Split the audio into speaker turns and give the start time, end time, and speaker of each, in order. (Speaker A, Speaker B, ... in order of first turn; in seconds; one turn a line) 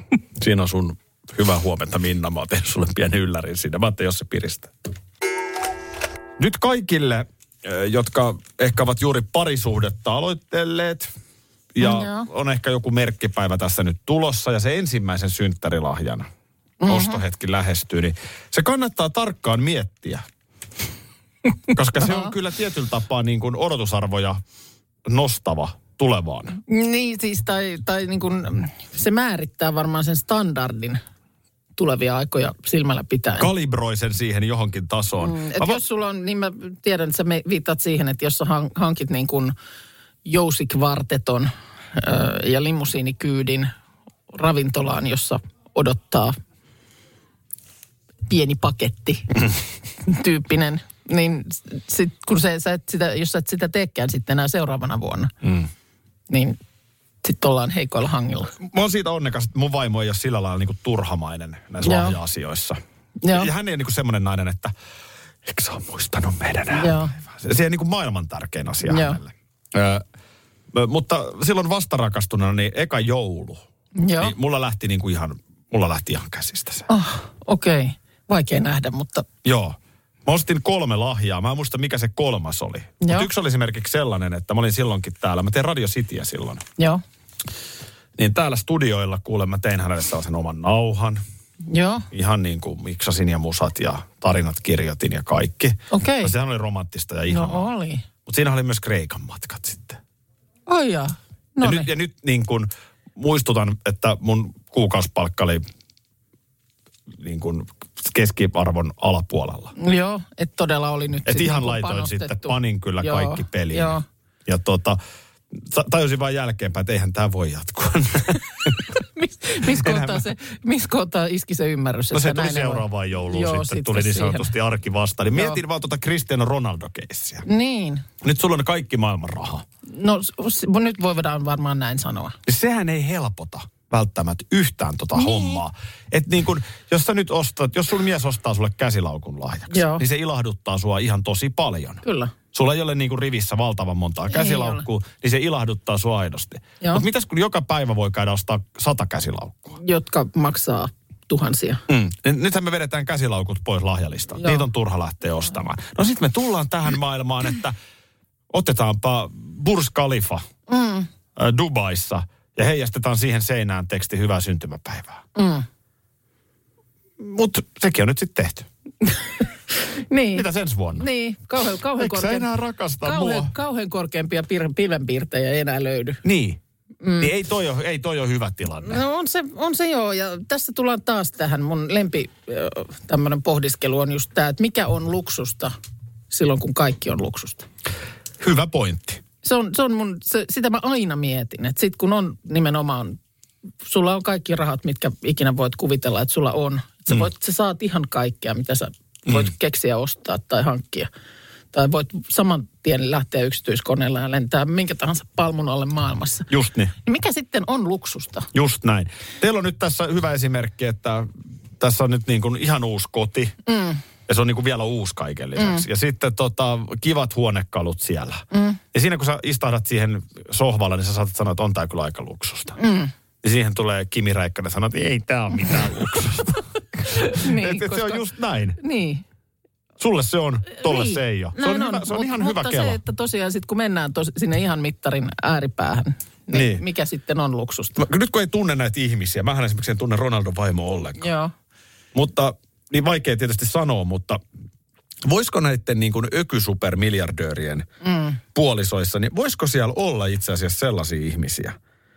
Speaker A: 0.4-4.7
Speaker A: 6.4-11.1
Speaker A: 11.7-16.3
Speaker B: 11.8-12.3
Speaker B: 16.8-17.2
Speaker A: 16.9-20.2
Speaker A: 21.7-24.4
Speaker B: 22.0-22.3
Speaker A: 25.1-26.6
Speaker B: 26.7-31.0
Speaker B: 31.8-33.5
Speaker A: 33.4-35.8
Speaker B: 35.2-39.5
Speaker B: 40.2-43.7
Speaker B: 44.3-46.4
Speaker B: 48.3-49.4
Speaker B: 50.0-55.3
Speaker B: 56.3-56.6
Speaker B: 57.2-58.5
Speaker A: 58.6-62.8
Speaker B: 61.8-62.1
Speaker B: 63.2-63.5
Speaker A: 63.3-64.7
Speaker A: 65.4-70.0
Speaker B: 66.7-67.1
Speaker B: 68.8-69.2
Speaker A: 70.7-73.6
Speaker B: 74.0-74.3
Speaker A: 74.2-76.8
Speaker B: 76.9-79.2
Speaker A: 79.4-86.6
Speaker B: 83.0-83.3
Speaker A: 88.2-91.2
Speaker B: 91.7-92.0
Speaker A: 92.1-97.7
Speaker B: 95.9-96.3
Speaker B: 97.3-98.0
Speaker A: 98.2-100.0
Speaker B: 100.7-101.9
Speaker A: 101.6-105.6
Speaker A: 107.1-109.7
Speaker B: 109.8-114.0
Speaker A: 111.2-115.0
Speaker A: 115.5-118.9
Speaker B: 118.9-124.5
Speaker A: 119.7-120.3
Speaker A: 122.1-127.4
Speaker B: 125.3-125.6
Speaker B: 127.4-128.1
Speaker A: 128.2-129.6
Speaker B: 129.9-132.4
Speaker A: 132.4-149.8
Speaker B: 135.2-135.6
Speaker B: 139.7-140.0
Speaker B: 142.0-142.3
Speaker B: 144.3-144.8
Speaker B: 149.8-151.8
Speaker A: 151.9-157.7
Speaker B: 154.4-154.6
Speaker A: 158.5-160.4
Speaker B: 160.7-161.1
Speaker A: 161.3-165.2
Speaker B: 165.3-165.6
Speaker A: 167.2-168.7
Speaker B: 169.8-170.4
Speaker A: 170.3-171.1
Speaker B: 171.0-172.5
Speaker A: 172.0-173.5
Speaker B: 173.0-176.2
Speaker A: 176.2-176.6
Speaker B: 177.0-177.3
Speaker A: 177.2-179.0
Speaker B: 178.8-185.7
Speaker B: 186.3-187.7
Speaker A: 188.4-189.2
Speaker B: 189.4-193.2
Speaker B: 193.8-201.1
Speaker B: 201.7-206.5
Speaker A: 206.5-206.9
Speaker B: 207.0-208.5
Speaker A: 208.5-213.5
Speaker B: 213.7-214.0
Speaker A: 214.3-222.8
Speaker B: 215.6-215.8
Speaker B: 218.5-218.8
Speaker B: 222.8-223.1
Speaker A: 223.4-228.8
Speaker B: 227.1-228.2
Speaker B: 228.8-229.2
Speaker A: 230.0-233.0
Speaker B: 230.8-238.0
Speaker A: 236.5-236.8
Speaker A: 238.0-241.3
Speaker B: 241.2-241.5
Speaker A: 242.1-244.4
Speaker A: 245.2-247.8
Speaker B: 248.0-248.4
Speaker A: 248.5-251.8